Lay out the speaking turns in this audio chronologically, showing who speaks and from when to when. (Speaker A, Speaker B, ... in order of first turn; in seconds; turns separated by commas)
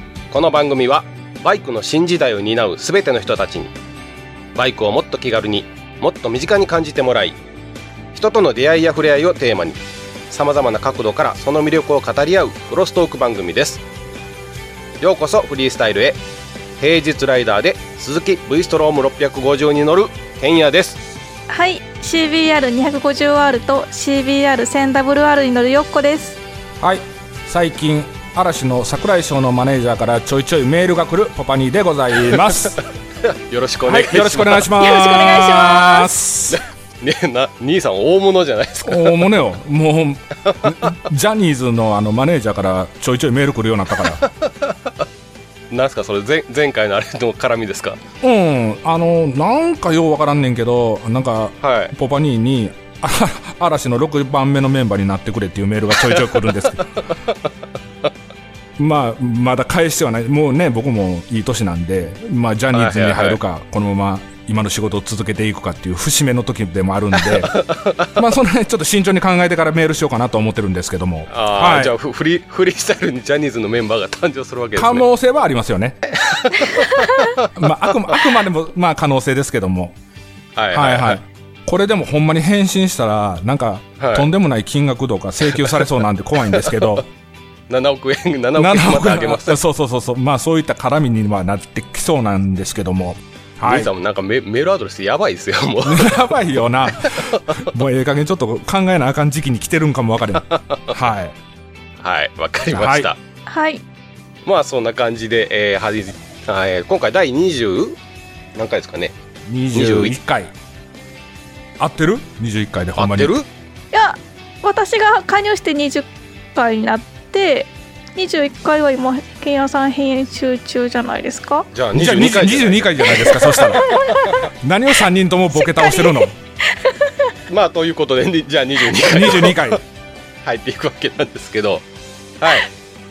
Speaker A: 0.3-3.7, Speaker A: 4.5-7.4, Speaker A: 8.1-13.8, Speaker A: 15.0-16.2, Speaker A: 16.8-21.0, Speaker B: 21.5-26.4, Speaker C: 26.8-32.8, Speaker A: 32.3-34.7, Speaker C: 33.9-36.6, Speaker B: 34.8-36.1, Speaker A: 36.5-39.3, Speaker C: 38.9-44.2, Speaker A: 44.2-44.9, Speaker A: 45.7-48.0, Speaker C: 48.2-57.0, Speaker A: 51.6-51.9, Speaker A: 56.1-56.8, Speaker C: 58.8-67.6, Speaker A: 62.7-63.4, Speaker A: 67.2-68.2, Speaker C: 68.2-71.9, Speaker A: 71.3-75.1, Speaker C: 74.8-76.0, Speaker A: 76.1-77.5, Speaker C: 77.4-80.0, Speaker A: 80.6-81.2, Speaker C: 80.7-87.0, Speaker A: 84.0-84.3, Speaker A: 85.5-85.9, Speaker A: 86.5-87.0, Speaker A: 87.7-89.6, Speaker C: 88.6-93.9, Speaker A: 93.6-97.7, Speaker C: 95.8-101.4, Speaker A: 100.5-101.0, Speaker A: 102.0-103.2, Speaker C: 102.7-103.1, Speaker B: 103.5-103.8, Speaker A: 104.5-108.0, Speaker A: 108.5-109.1, Speaker C: 109.5-110.5, Speaker A: 109.7-110.2, Speaker C: 111.8-113.4, Speaker A: 113.0-113.5, Speaker B: 113.9-121.7, Speaker A: 121.7-124.4, Speaker C: 121.9-123.9, Speaker B: 123.5-124.3, Speaker C: 124.6-126.3, Speaker B: 125.5-127.3, Speaker A: 127.5-129.8, Speaker C: 129.1-129.8, Speaker A: 130.4-131.8, Speaker A: 132.4-132.7